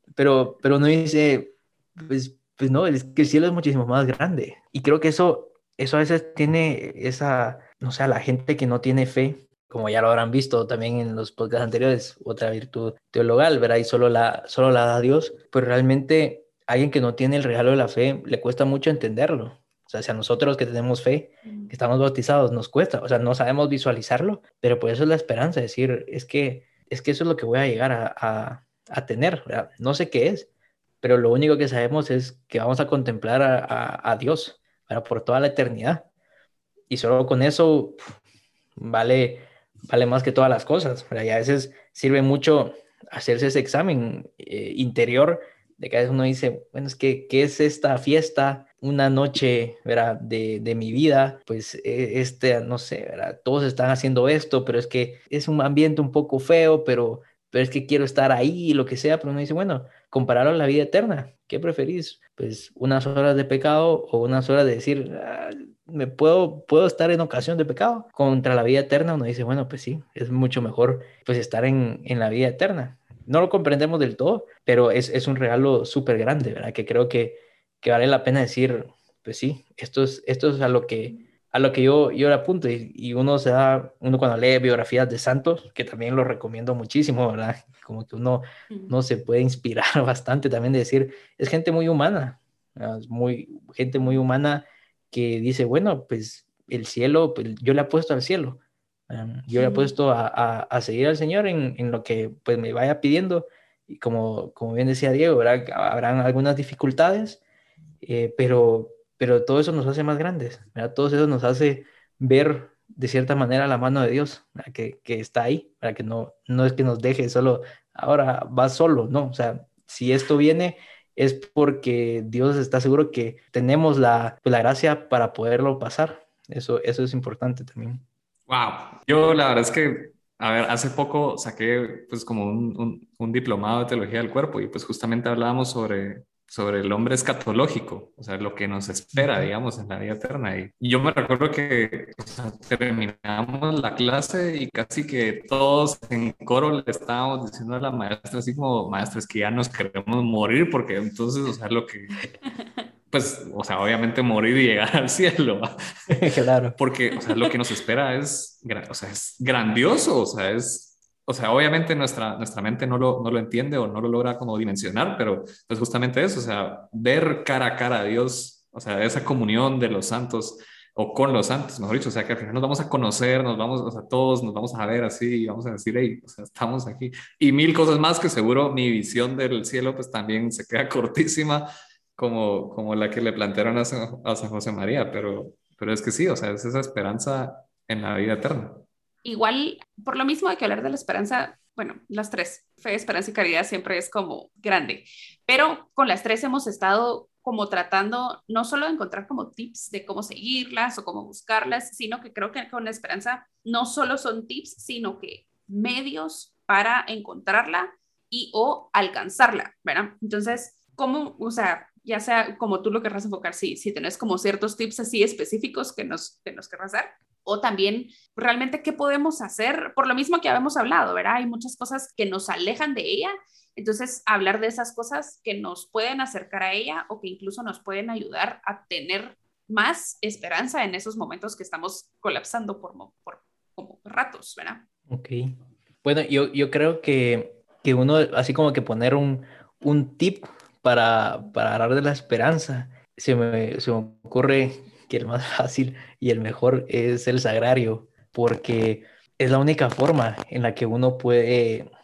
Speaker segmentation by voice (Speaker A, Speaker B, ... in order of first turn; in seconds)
Speaker A: 0.2-30.5, 31.0-36.1, 36.9-38.1, 38.8-107.4, 108.0-128.0, 139.1-139.5, 156.1-156.8, 235.1-251.9
Speaker B: 21.4-21.7, 99.5-99.9, 189.2-234.8
Speaker C: 128.5-152.2, 153.1-156.2, 156.8-188.9